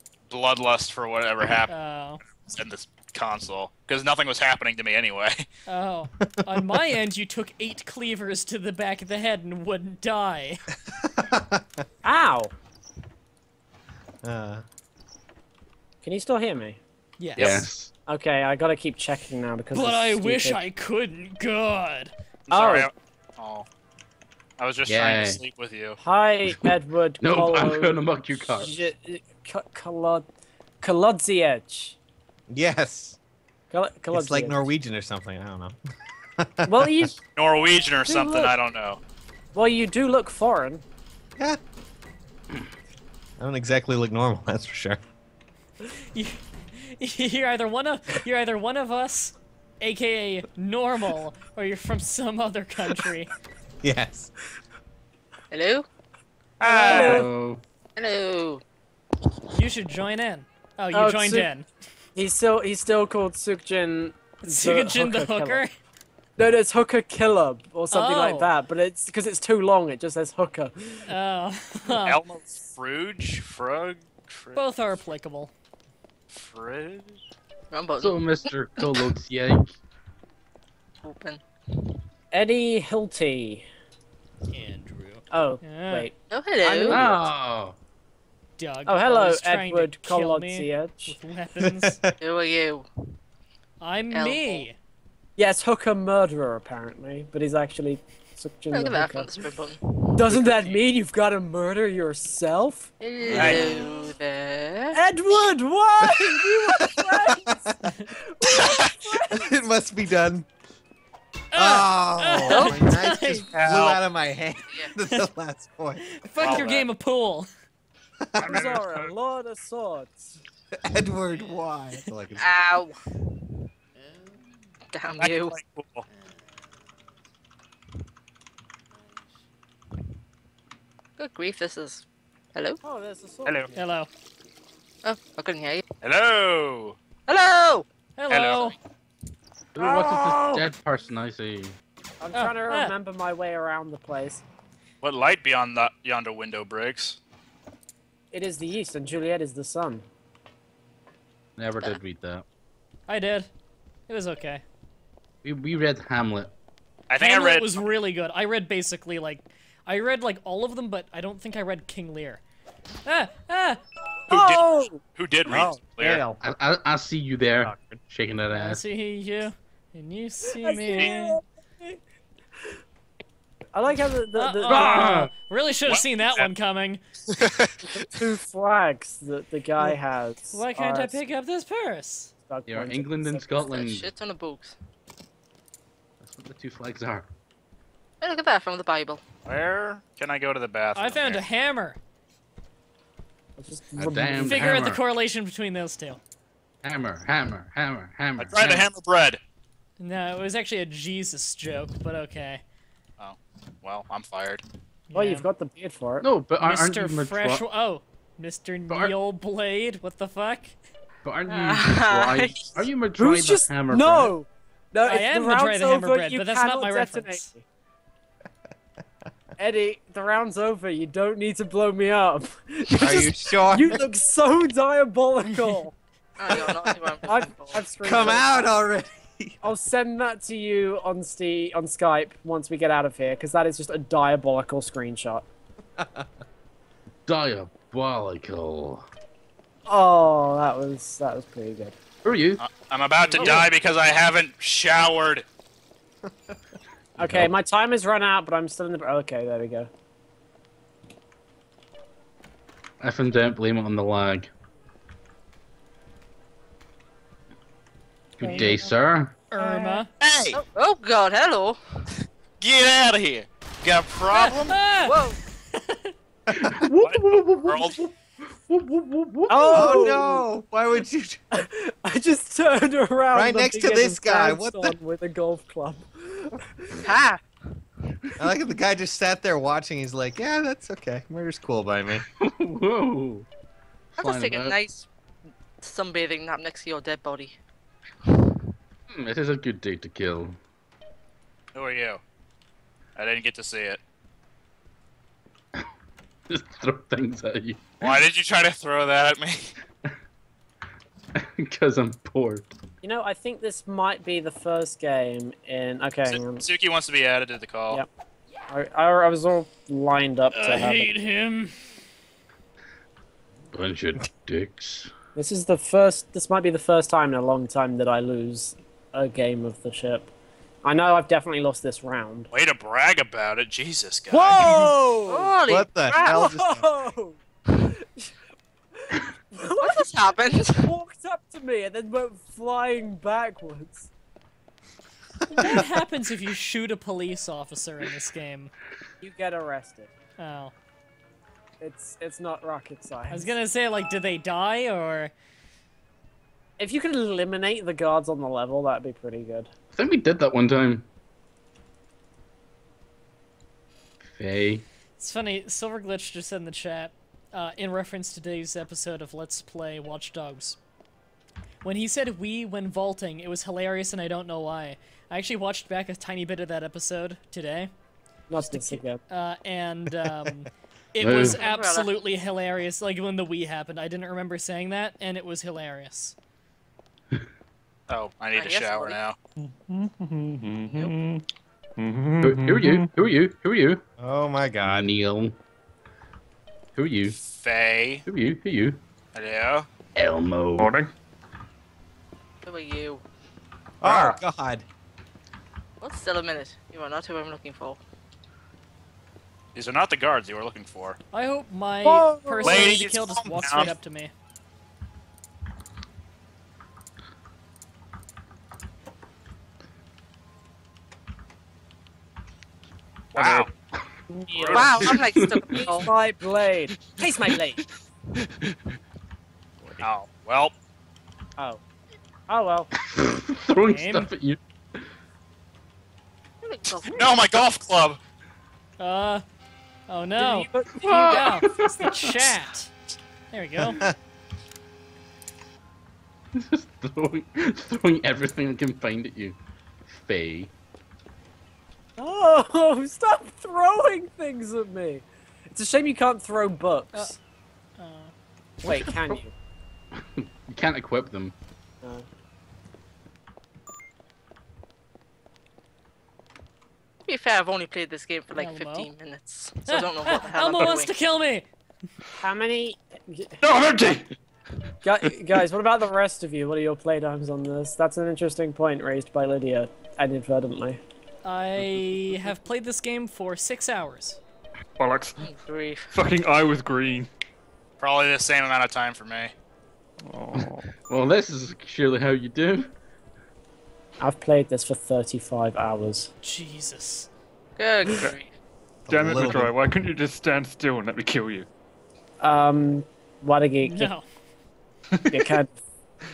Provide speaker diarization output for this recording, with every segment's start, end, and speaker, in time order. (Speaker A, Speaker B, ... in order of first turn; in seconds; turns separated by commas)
Speaker A: 0.3-1.7, Speaker B: 1.7-2.2, Speaker A: 2.5-5.5, Speaker B: 5.7-10.6, Speaker C: 10.9-11.7, Speaker D: 12.0-12.5, Speaker C: 14.2-14.6, Speaker D: 16.0-16.8, Speaker B: 17.2-17.7, Speaker E: 17.4-17.9, Speaker D: 17.4-20.6, Speaker B: 19.7-22.1, Speaker A: 22.5-23.7, Speaker D: 22.5-22.9, Speaker A: 24.6-26.0, Speaker E: 24.9-25.4, Speaker D: 26.0-30.3, Speaker E: 27.2-28.7, Speaker D: 30.8-32.0, Speaker C: 32.5-33.2, Speaker D: 33.7-34.7, Speaker C: 34.1-35.8, Speaker C: 36.4-37.1, Speaker D: 36.7-37.2, Speaker A: 37.4-39.0, Speaker D: 38.1-38.5, Speaker D: 39.5-40.8, Speaker C: 43.4-45.0, Speaker B: 46.1-53.3, Speaker C: 53.8-54.3, Speaker F: 55.5-55.9, Speaker D: 56.6-57.3, Speaker B: 56.6-57.2, Speaker A: 56.6-57.2, Speaker E: 56.9-57.6, Speaker F: 58.0-58.6, Speaker B: 59.5-61.7, Speaker D: 60.9-61.5, Speaker D: 62.2-65.6, Speaker B: 64.4-65.7, Speaker D: 66.4-71.1, Speaker B: 67.9-68.5, Speaker B: 71.1-72.2, Speaker A: 72.0-74.6, Speaker B: 74.5-75.5, Speaker A: 76.3-77.2, Speaker F: 77.7-79.1, Speaker E: 78.0-79.8, Speaker F: 81.0-81.4, Speaker D: 82.3-83.7, Speaker B: 84.5-86.1, Speaker D: 85.3-87.3, Speaker F: 86.3-87.1, Speaker E: 86.9-87.8, Speaker B: 88.6-92.0, Speaker D: 88.9-91.2, Speaker C: 91.6-92.1, Speaker F: 92.2-92.9, Speaker B: 93.8-94.8, Speaker F: 94.1-94.7, Speaker D: 95.4-99.3, Speaker F: 98.7-99.8, Speaker D: 100.1-103.9, Speaker F: 103.0-105.0, Speaker E: 103.3-103.6, Speaker D: 105.0-107.7, Speaker C: 106.0-107.9, Speaker B: 107.9-108.1, Speaker D: 108.4-109.5, Speaker A: 108.6-108.9, Speaker C: 109.3-110.5, Speaker B: 111.5-113.5, Speaker C: 111.5-116.2, Speaker F: 112.4-112.8, Speaker A: 113.5-114.0, Speaker B: 116.1-117.5, Speaker A: 116.4-116.9, Speaker C: 118.2-118.9, Speaker D: 118.4-120.4, Speaker C: 120.7-122.5, Speaker F: 122.4-123.0, Speaker F: 124.9-125.6, Speaker A: 125.2-126.1, Speaker F: 131.2-132.8, Speaker D: 132.8-133.8, Speaker A: 133.5-133.7, Speaker B: 133.8-134.1, Speaker F: 135.0-135.8, Speaker A: 136.0-137.0, Speaker F: 137.3-137.9, Speaker B: 138.2-138.8, Speaker A: 138.3-138.8, Speaker E: 139.8-141.8, Speaker D: 139.8-140.7, Speaker D: 142.2-144.4, Speaker B: 142.3-142.9, Speaker A: 145.0-147.2, Speaker D: 148.3-150.1, Speaker E: 151.6-152.4, Speaker B: 153.1-153.5, Speaker B: 154.1-154.6, Speaker E: 155.4-156.5, Speaker A: 157.1-157.8, Speaker B: 157.2-162.4, Speaker B: 163.1-163.8, Speaker D: 164.3-165.0, Speaker A: 164.3-166.2, Speaker C: 165.5-166.4, Speaker E: 166.4-168.8, Speaker C: 167.6-168.0, Speaker B: 168.5-171.4, Speaker D: 170.6-172.0, Speaker D: 173.7-175.0, Speaker B: 174.4-177.0, Speaker E: 174.7-175.3, Speaker A: 175.9-176.5, Speaker A: 177.3-177.8, Speaker D: 177.8-181.2, Speaker B: 180.5-182.3, Speaker D: 182.5-183.6, Speaker E: 182.7-184.1, Speaker F: 183.6-184.8, Speaker E: 186.2-187.3, Speaker F: 188.2-189.2, Speaker A: 189.5-191.4, Speaker B: 190.9-192.0, Speaker D: 193.6-194.7, Speaker E: 194.0-195.0, Speaker B: 194.4-196.2, Speaker E: 196.8-198.9, Speaker A: 198.4-199.4, Speaker B: 200.0-202.6, Speaker A: 203.2-204.6, Speaker B: 205.1-205.5, Speaker D: 205.1-206.3, Speaker E: 206.2-207.7, Speaker B: 206.6-210.8, Speaker E: 208.9-209.2, Speaker E: 211.2-214.3, Speaker F: 211.5-212.8, Speaker D: 213.2-217.6, Speaker B: 215.1-217.5, Speaker D: 219.6-225.9, Speaker C: 222.9-224.1, Speaker F: 226.4-227.9, Speaker D: 227.3-228.6, Speaker C: 228.0-229.6, Speaker D: 229.6-235.5, Speaker C: 236.0-236.3, Speaker E: 237.3-239.1, Speaker D: 239.9-242.0, Speaker E: 242.2-242.6, Speaker A: 242.6-245.4, Speaker D: 243.3-243.7, Speaker E: 243.4-243.7, Speaker C: 246.3-246.5, Speaker D: 247.2-249.9, Speaker E: 247.2-247.5, Speaker E: 253.0-254.5, Speaker E: 258.4-259.4, Speaker D: 258.4-258.9, Speaker B: 259.5-260.1, Speaker D: 259.6-260.0, Speaker A: 260.2-260.6, Speaker F: 260.5-261.8, Speaker A: 262.6-264.8, Speaker B: 264.7-266.1, Speaker F: 265.0-265.4, Speaker C: 266.5-266.8, Speaker E: 266.6-270.1, Speaker A: 267.0-268.0, Speaker D: 269.5-270.5, Speaker C: 269.7-271.4, Speaker D: 271.5-277.0, Speaker C: 273.3-275.0, Speaker F: 277.0-277.4, Speaker C: 278.4-282.2, Speaker E: 282.4-283.5, Speaker E: 284.1-284.8, Speaker F: 284.2-285.1, Speaker F: 285.8-287.6, Speaker E: 289.1-290.6, Speaker A: 291.8-292.2, Speaker A: 293.2-294.0, Speaker E: 296.5-298.2, Speaker A: 298.0-299.7, Speaker E: 301.4-302.7, Speaker D: 303.0-306.6, Speaker A: 306.3-308.0, Speaker D: 308.7-311.1, Speaker B: 310.5-311.8, Speaker E: 313.7-315.1, Speaker D: 315.4-320.3, Speaker D: 320.8-322.5, Speaker A: 322.5-324.9, Speaker D: 324.3-325.6, Speaker F: 325.3-326.5, Speaker C: 325.7-326.9, Speaker D: 326.2-327.4, Speaker D: 328.0-328.3, Speaker D: 329.0-334.1, Speaker F: 329.8-330.9, Speaker B: 335.5-338.7, Speaker D: 339.2-340.1, Speaker B: 340.4-340.7, Speaker D: 341.8-343.5, Speaker B: 343.3-345.3, Speaker D: 346.8-349.7, Speaker E: 349.9-351.1, Speaker E: 354.3-354.8, Speaker B: 355.2-360.8, Speaker B: 361.8-367.9, Speaker D: 368.5-369.2, Speaker B: 368.6-376.4, Speaker E: 371.2-371.6, Speaker F: 371.3-372.2, Speaker A: 378.1-379.4, Speaker F: 378.5-379.2, Speaker G: 379.6-381.4, Speaker G: 382.0-383.2, Speaker E: 382.4-384.0, Speaker C: 384.2-385.1, Speaker E: 384.8-385.6, Speaker E: 386.9-387.4, Speaker A: 387.5-388.2, Speaker E: 388.3-389.0, Speaker A: 389.4-389.9, Speaker E: 390.1-391.0, Speaker G: 390.8-391.1, Speaker F: 392.6-393.2, Speaker C: 394.0-394.9, Speaker A: 394.0-394.4, Speaker F: 396.0-398.0, Speaker A: 399.8-401.2, Speaker B: 401.3-404.3, Speaker D: 402.0-403.1, Speaker A: 402.6-403.9, Speaker A: 413.3-413.7, Speaker G: 413.4-413.7, Speaker D: 414.3-415.1, Speaker A: 414.5-415.0, Speaker F: 414.7-416.1, Speaker E: 415.0-415.8, Speaker D: 415.8-417.8, Speaker A: 420.0-420.7, Speaker D: 422.5-422.9, Speaker E: 423.0-424.6, Speaker B: 423.8-424.3, Speaker F: 426.6-427.5, Speaker A: 427.1-428.2, Speaker B: 429.0-429.4, Speaker B: 430.1-432.9, Speaker D: 430.4-431.4, Speaker E: 431.0-432.5, Speaker B: 433.5-434.0, Speaker E: 436.5-440.7, Speaker D: 442.2-447.4, Speaker B: 448.0-448.3, Speaker E: 448.8-449.4, Speaker D: 448.8-449.5, Speaker E: 450.1-451.5, Speaker D: 452.0-452.3, Speaker F: 457.3-461.1, Speaker B: 458.6-459.1, Speaker B: 459.9-461.7, Speaker D: 462.4-463.6, Speaker G: 463.6-464.4, Speaker D: 465.0-471.0, Speaker B: 471.4-474.4, Speaker G: 475.0-475.5, Speaker F: 475.4-476.1, Speaker G: 476.1-477.3, Speaker A: 478.0-479.5, Speaker G: 480.2-480.9, Speaker E: 481.1-482.9, Speaker D: 484.2-486.3, Speaker B: 486.4-487.3, Speaker F: 487.8-488.5, Speaker C: 489.1-489.7, Speaker G: 489.1-491.7, Speaker D: 492.4-494.1, Speaker B: 493.8-494.3, Speaker G: 495.1-495.6, Speaker D: 495.3-495.8